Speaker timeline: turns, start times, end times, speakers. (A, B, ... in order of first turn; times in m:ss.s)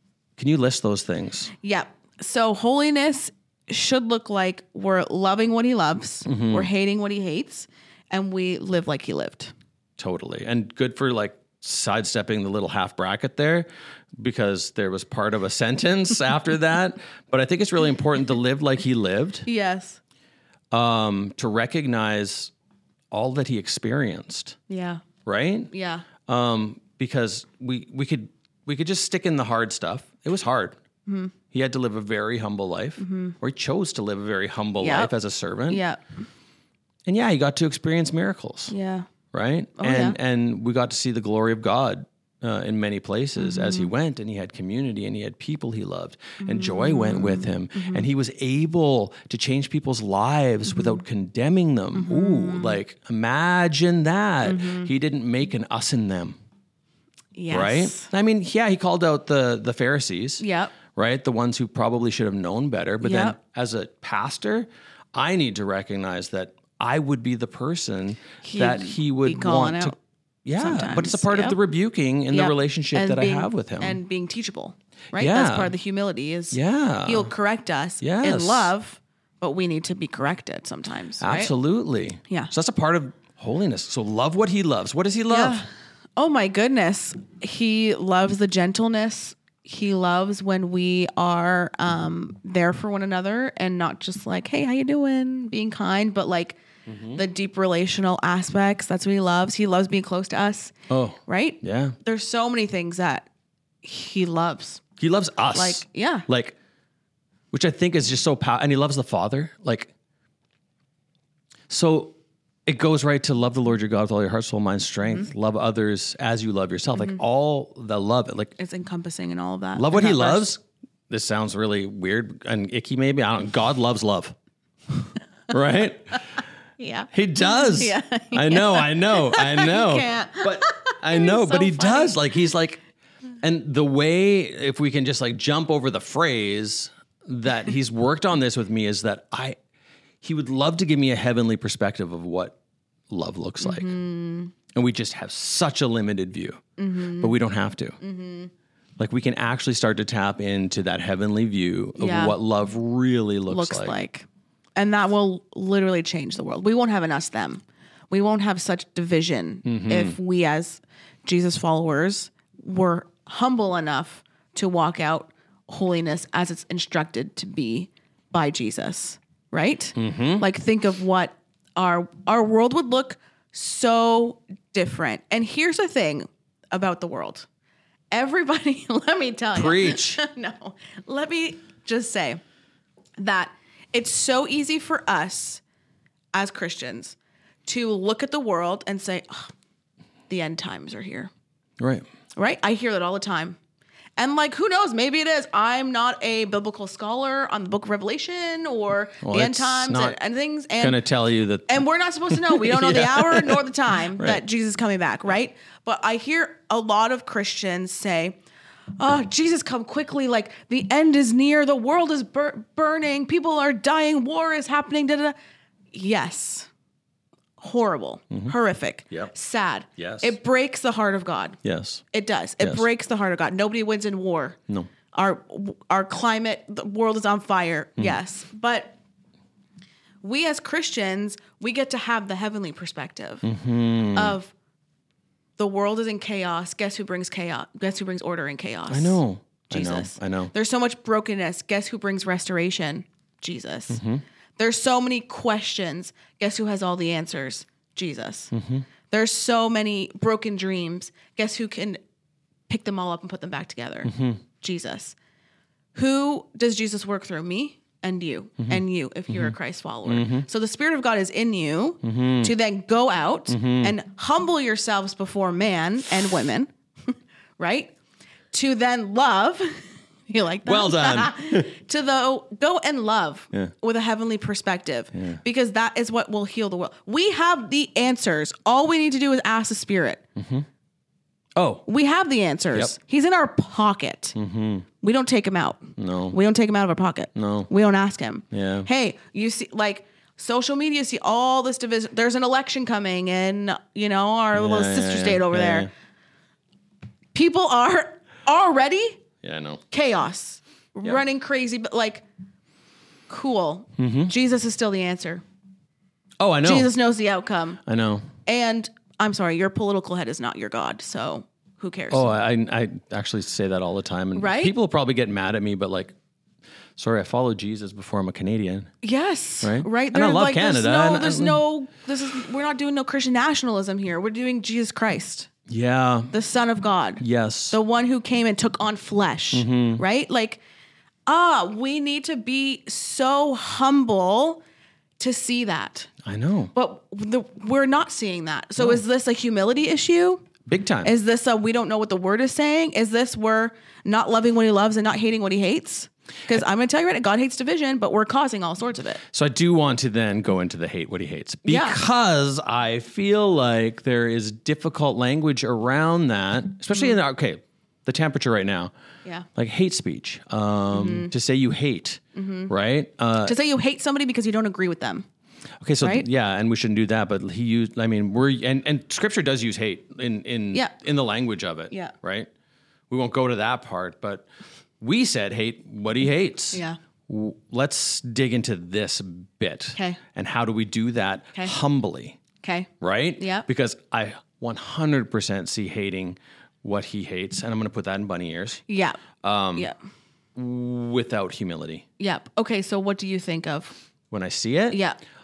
0:00.4-0:01.5 A
0:01.6-0:09.5 B
0:06.2-0:06.7 A
0:10.0-0:19.4 A
0:19.4-0:20.0 B
0:20.7-0:22.5 A
0:23.1-0:24.6 A
0:24.7-0:25.0 B
0:25.2-0:25.7 A
0:25.7-0:26.0 B
0:26.2-0:30.8 A
0:31.1-0:31.3 B
0:31.5-0:35.8 A
0:33.0-0:33.3 B
0:34.8-0:35.1 B
0:35.7-0:36.0 B
0:37.0-0:38.7 A
0:38.7-0:39.1 B
0:39.3-0:56.4 A
0:39.8-0:40.2 B
0:43.4-0:43.9 B
0:46.4-0:48.0 B
0:50.7-0:51.0 B
0:51.9-0:52.8 B
0:54.4-0:54.9 B
0:57.4-0:58.1 B
0:57.5-1:14.0 A
1:00.4-1:00.7 B
1:03.0-1:03.4 B
1:08.4-1:09.9 B
1:10.6-1:11.6 B
1:12.3-1:21.5 B
1:15.1-1:15.7 A
1:16.5-1:17.3 A
1:18.0-1:18.7 A
1:21.2-1:25.6 A
1:25.3-1:36.6 B
1:36.9-1:37.2 A
1:37.1-1:40.7 B
1:40.9-1:42.0 A
1:41.3-1:43.3 B
1:43.8-1:44.8 B
1:45.0-1:46.5 A
1:45.5-1:46.3 B
1:47.5-1:49.9 A
1:51.7-1:58.5 A
1:57.0-1:57.2 B
1:58.6-2:00.5 B
1:59.7-2:04.3 A
2:05.5-2:06.2 A
2:06.8-2:12.3 B
2:07.1-2:12.8 A
2:13.4-2:19.6 A
2:20.2-2:22.6 A
2:23.1-2:23.9 A
2:23.6-2:24.5 B
2:24.7-2:26.6 A
2:26.8-2:27.3 B
2:27.2-2:28.0 A
2:28.0-2:28.5 B
2:29.0-2:34.0 A
2:32.0-2:32.4 B
2:33.5-2:57.4 B
2:39.6-2:40.2 A
2:50.0-2:50.4 A
2:58.1-3:02.4 B
2:59.5-3:00.2 A
3:03.2-3:05.6 B
3:06.3-3:09.5 B
3:10.3-3:11.3 B
3:11.8-3:12.0 A
3:12.4-3:13.6 B
3:14.2-3:21.0 B
3:19.2-3:20.2 A
3:20.8-3:21.7 A
3:21.7-3:28.4 B
3:22.3-3:23.6 A
3:24.2-3:24.4 A
3:29.0-3:35.3 B
3:35.9-3:36.7 B
3:37.6-3:41.6 B
3:40.0-3:40.3 A
3:41.6-3:42.0 A
3:42.1-3:44.6 B
3:42.6-3:42.8 A
3:45.1-3:49.0 B
3:50.2-3:53.5 B
3:53.4-3:54.4 A
3:54.1-3:54.5 B
3:55.6-4:04.0 B
3:58.9-4:00.5 A
4:03.9-4:04.2 A
4:04.6-4:08.5 B
4:08.5-4:08.8 A
4:09.1-4:12.0 B
4:12.7-4:15.2 B
4:14.0-4:14.4 A
4:15.9-4:26.7 B
4:18.6-4:20.5 A
4:22.0-4:22.5 A
4:23.5-4:23.9 A
4:27.6-4:27.9 B
4:28.5-4:40.2 B
4:30.6-4:31.7 A
4:40.4-4:40.6 A
4:41.6-4:41.8 A
4:41.8-4:44.4 B
4:44.3-4:44.8 A
4:45.0-4:55.9 B
4:46.0-4:46.4 A
4:47.3-4:47.7 A
4:48.5-4:48.9 A
4:54.5-4:55.9 A
4:57.3-4:59.2 B
4:59.4-4:59.8 A
4:59.9-5:02.2 B
5:03.3-5:05.4 B
5:04.0-5:04.3 A
5:06.4-5:06.9 A
5:06.6-5:07.8 B
5:07.8-5:08.3 A
5:08.4-5:12.3 B
5:12.1-5:16.1 A
5:14.4-5:14.7 B
5:17.0-5:18.9 A
5:19.0-5:25.5 B
5:19.6-5:21.6 A
5:25.7-5:26.3 A
5:26.3-5:30.6 B
5:27.2-5:27.8 A
5:29.5-5:30.0 A
5:31.3-5:34.6 B
5:35.2-5:36.1 B
5:36.2-5:36.7 A
5:36.7-5:40.4 B
5:40.7-5:41.1 A
5:41.0-5:49.2 B
5:49.3-5:58.9 A
5:51.6-5:52.0 B
5:59.6-6:03.6 A
6:00.9-6:01.3 B
6:02.3-6:02.7 B
6:03.4-6:05.2 B
6:05.8-6:12.5 A
6:13.1-6:14.4 A
6:15.0-6:22.4 A
6:22.6-6:23.6 B
6:23.0-6:28.8 A
6:28.9-6:29.2 B
6:29.4-6:29.9 A
6:30.6-6:32.0 A
6:32.2-6:33.9 B
6:34.3-6:35.0 A
6:34.9-6:35.2 B